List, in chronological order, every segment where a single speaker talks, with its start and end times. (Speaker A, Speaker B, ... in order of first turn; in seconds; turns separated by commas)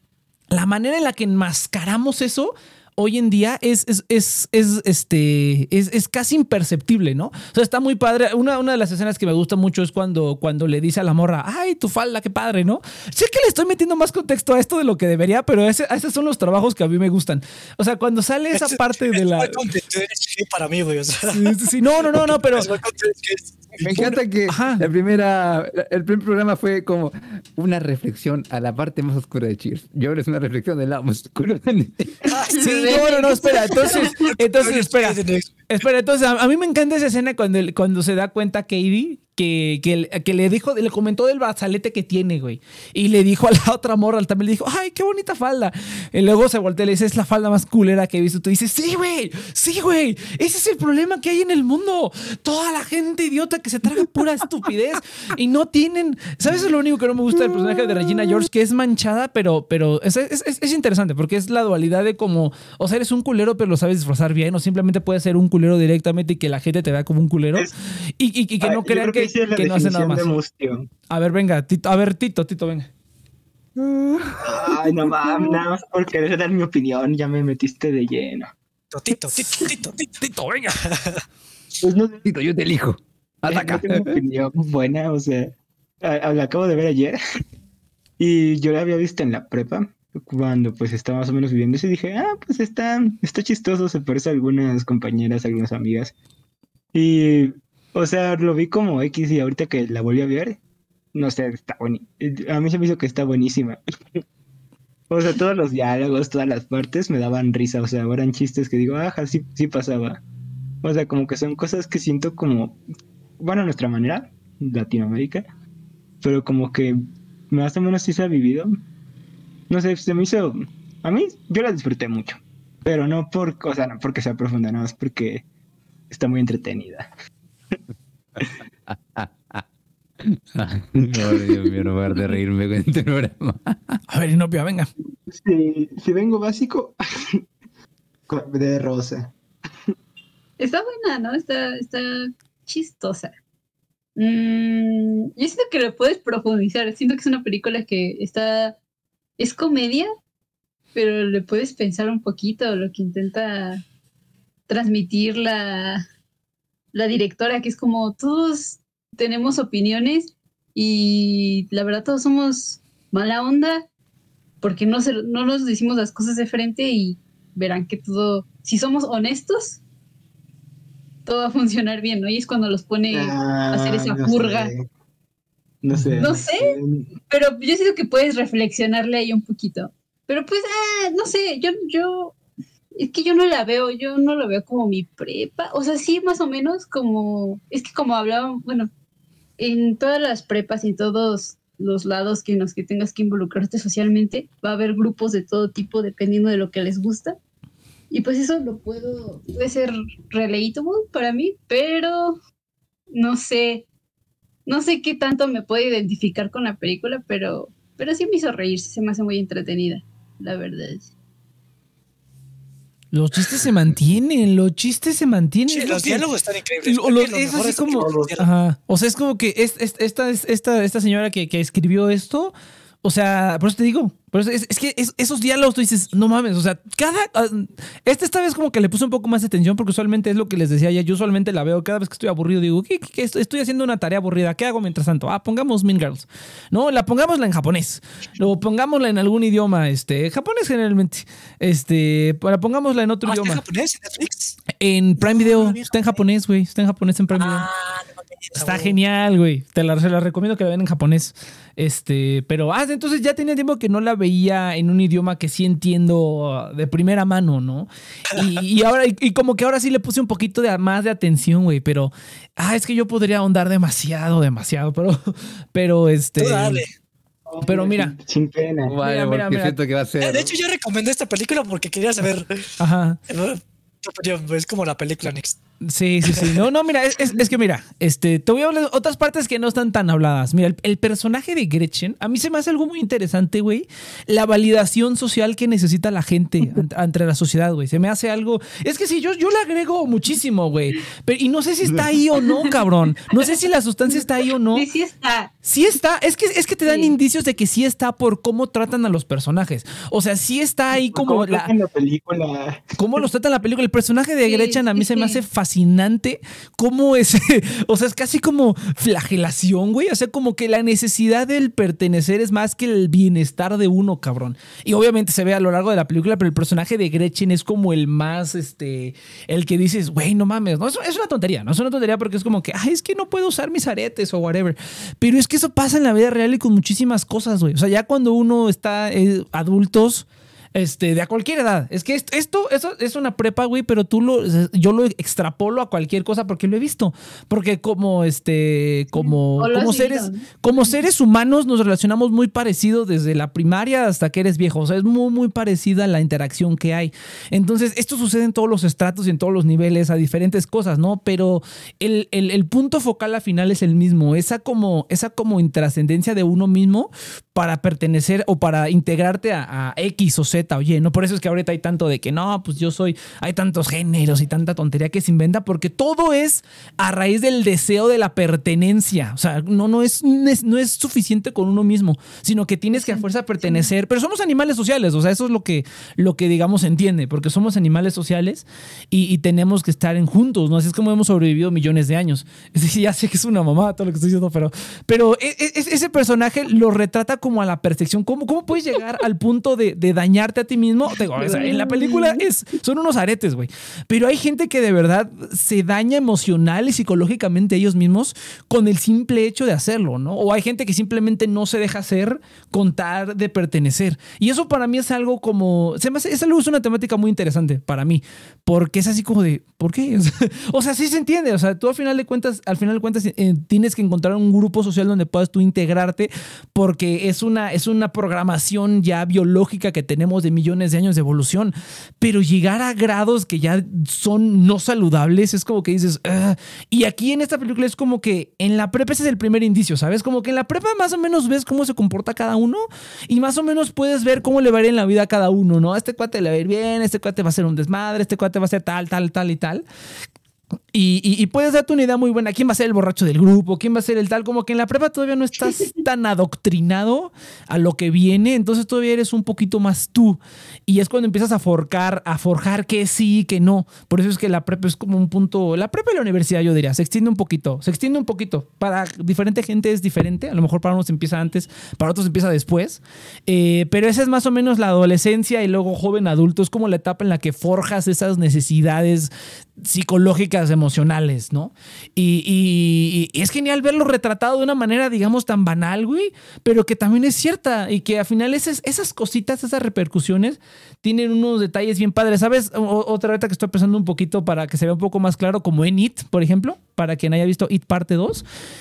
Speaker A: 0.5-19.7, Speaker B: 18.6-23.9, Speaker A: 21.3-22.7, Speaker C: 23.9-32.2, Speaker A: 23.9-24.8, Speaker B: 32.2-35.7, Speaker D: 32.3-34.1, Speaker A: 32.6-70.4, Speaker E: 68.6-70.9, Speaker A: 71.1-72.9, Speaker C: 73.8-74.7, Speaker E: 74.4-78.5, Speaker B: 78.9-80.1, Speaker A: 79.1-80.9, Speaker B: 80.9-81.2, Speaker E: 81.8-82.3, Speaker C: 82.2-84.2, Speaker E: 83.5-87.2, Speaker E: 88.2-96.2, Speaker E: 96.9-100.6, Speaker E: 101.1-103.8, Speaker E: 105.1-110.2, Speaker E: 110.8-112.8, Speaker E: 113.4-115.5, Speaker E: 116.2-117.0, Speaker E: 117.5-118.8, Speaker E: 119.7-125.5, Speaker E: 126.1-127.1, Speaker C: 128.9-129.7, Speaker C: 130.2-134.0, Speaker A: 134.1-134.9, Speaker E: 135.3-137.4, Speaker E: 138.3-139.3, Speaker D: 140.6-143.3, Speaker D: 144.2-148.8, Speaker D: 149.4-150.1, Speaker D: 150.9-153.8, Speaker D: 154.7-156.0, Speaker D: 156.9-163.9, Speaker D: 164.6-169.8, Speaker D: 171.3-174.7, Speaker E: 173.1-174.9, Speaker E: 175.8-177.2, Speaker D: 176.2-176.8, Speaker D: 177.3-182.4, Speaker D: 183.0-188.9, Speaker D: 189.6-197.4, Speaker D: 198.1-202.4, Speaker D: 203.1-203.9, Speaker D: 204.7-211.1, Speaker A: 213.1-216.3, Speaker B: 215.7-218.5, Speaker A: 216.8-222.5, Speaker E: 217.9-218.3, Speaker A: 223.0-243.6, Speaker B: 243.2-244.6, Speaker A: 244.8-247.7, Speaker B: 245.2-246.2, Speaker B: 247.3-248.9, Speaker A: 248.6-266.8, Speaker B: 266.4-266.9, Speaker E: 267.5-269.0, Speaker A: 267.6-268.1, Speaker C: 268.9-270.5, Speaker A: 269.0-269.8, Speaker B: 270.2-272.7, Speaker A: 272.8-273.2, Speaker B: 273.3-275.6, Speaker A: 275.8-294.9, Speaker B: 276.3-276.6, Speaker D: 294.7-295.5, Speaker A: 295.6-301.7, Speaker D: 296.9-297.1, Speaker E: 300.9-302.9, Speaker A: 303.0-439.9, Speaker D: 304.5-305.4, Speaker D: 339.1-341.0, Speaker D: 372.9-373.9, Speaker D: 391.4-392.4, Speaker A: 440.9-488.4